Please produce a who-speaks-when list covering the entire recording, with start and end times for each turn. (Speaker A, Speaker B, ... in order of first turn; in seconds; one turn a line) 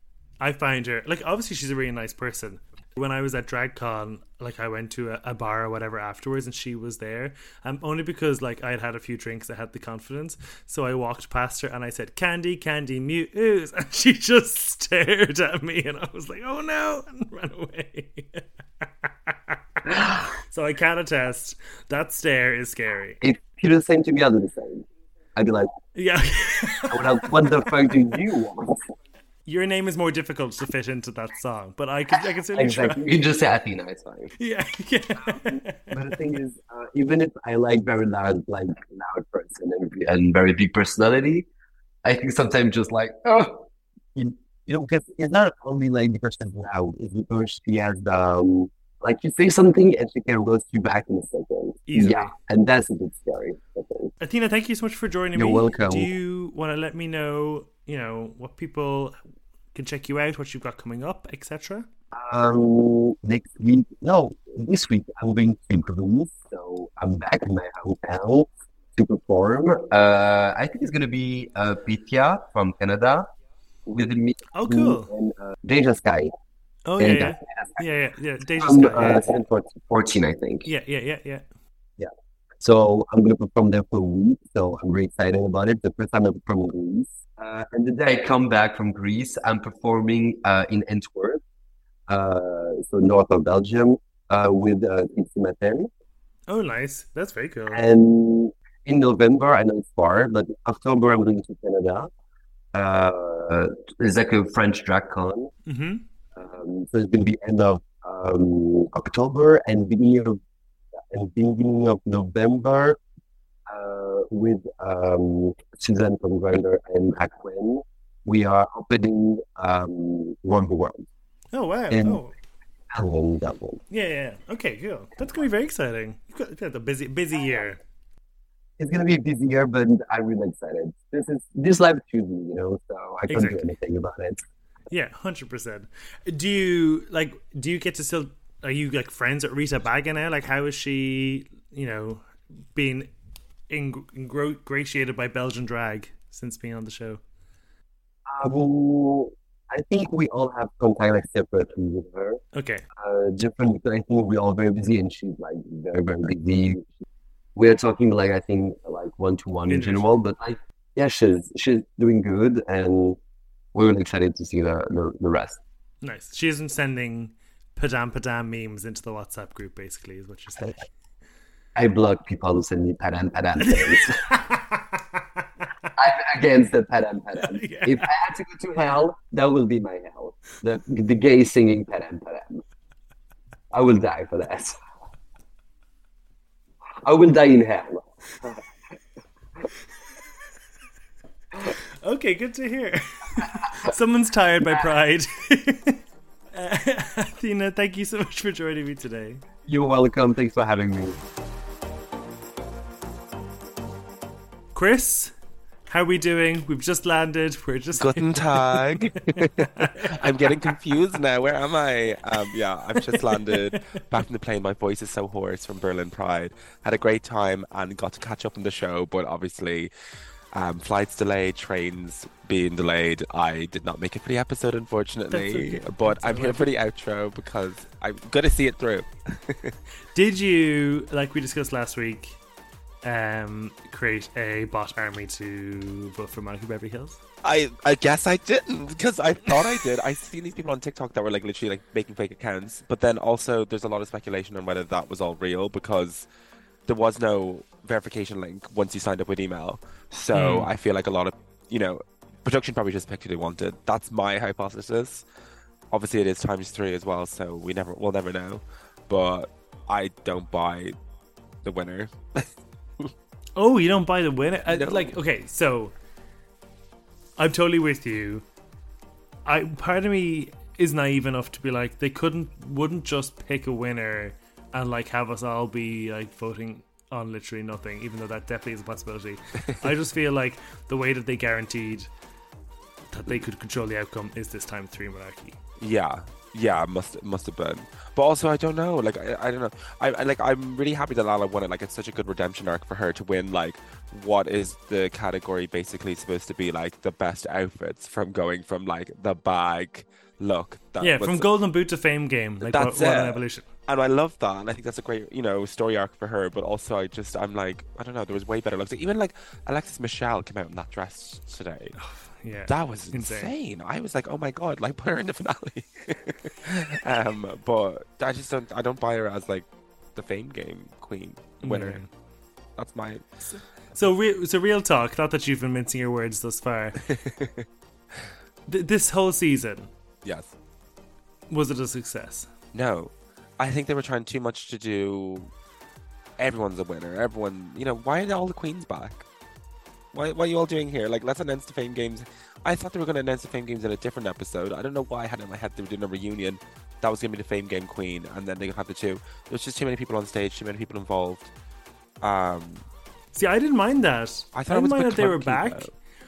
Speaker A: 0.4-23.2
Speaker B: 23.2-25.7
Speaker A: 25.9-27.7
Speaker B: 26.9-28.9
Speaker A: 29.5-33.1
Speaker B: 32.5-34.3
Speaker A: 34.4-36.1
Speaker B: 35.2-41.5
Speaker B: 42.0-54.1
Speaker A: 51.9-52.4
Speaker A: 54.2-59.2
Speaker B: 55.4-56.1
Speaker A: 59.7-61.9
Speaker B: 62.2-73.3
Speaker B: 73.9-76.3
Speaker A: 74.5-75.1
Speaker A: 76.9-79.3
Speaker B: 77.0-77.7
Speaker B: 78.6-80.7
Speaker A: 80.7-81.4
Speaker B: 82.6-91.4
Speaker B: 92.1-95.9
Speaker A: 96.5-97.8
Speaker B: 97.7-102.1
Speaker B: 102.7-105.5
Speaker A: 105.7-106.0
Speaker B: 106.4-110.4
Speaker B: 111.1-113.0
Speaker B: 113.7-121.1
Speaker A: 121.5-122.4
Speaker B: 121.9-122.2
Speaker B: 122.9-123.8
Speaker A: 123.9-127.8
Speaker B: 128.8-134.4
Speaker A: 133.3-133.7
Speaker A: 134.9-143.1
Speaker A: 143.7-147.2
Speaker B: 148.3-152.4
Speaker A: 152.5-152.8
Speaker B: 153.0-156.9
Speaker B: 157.6-163.2
Speaker A: 159.7-160.1
Speaker B: 163.7-165.6
Speaker A: 166.0-170.9
Speaker B: 171.8-174.2
Speaker A: 173.6-175.7
Speaker B: 176.0-182.6
Speaker A: 177.3-178.1
Speaker B: 183.7-184.8
Speaker B: 187.0-188.6
Speaker A: 191.6-196.0
Speaker A: 196.5-199.4
Speaker B: 199.7-201.2
Speaker A: 204.7-205.3
Speaker A: 205.9-210.7
Speaker C: 207.9-219.9
Speaker A: 213.0-213.9
Speaker C: 220.5-229.8
Speaker A: 225.3-226.7
Speaker A: 230.1-232.4
Speaker A: 233.0-237.2
Speaker C: 237.4-246.3
Speaker C: 246.9-255.3
Speaker A: 250.3-250.7
Speaker C: 255.9-261.0
Speaker C: 261.6-263.1
Speaker A: 263.6-265.9
Speaker C: 264.7-265.1
Speaker A: 267.4-268.4
Speaker A: 269.5-282.1
Speaker A: 283.1-285.6
Speaker C: 285.8-301.5
Speaker A: 301.0-303.7
Speaker C: 302.6-312.0
Speaker A: 312.0-313.5
Speaker C: 312.7-322.0
Speaker A: 321.6-322.1
Speaker C: 322.8-323.2
Speaker A: 323.5-327.0
Speaker C: 327.1-327.7
Speaker A: 328.7-329.9
Speaker C: 330.2-330.5
Speaker A: 331.5-332.5
Speaker C: 332.7-335.5
Speaker C: 336.4-339.2
Speaker C: 340.1-351.5
Speaker C: 352.2-352.9
Speaker A: 353.3-355.9
Speaker C: 354.5-355.9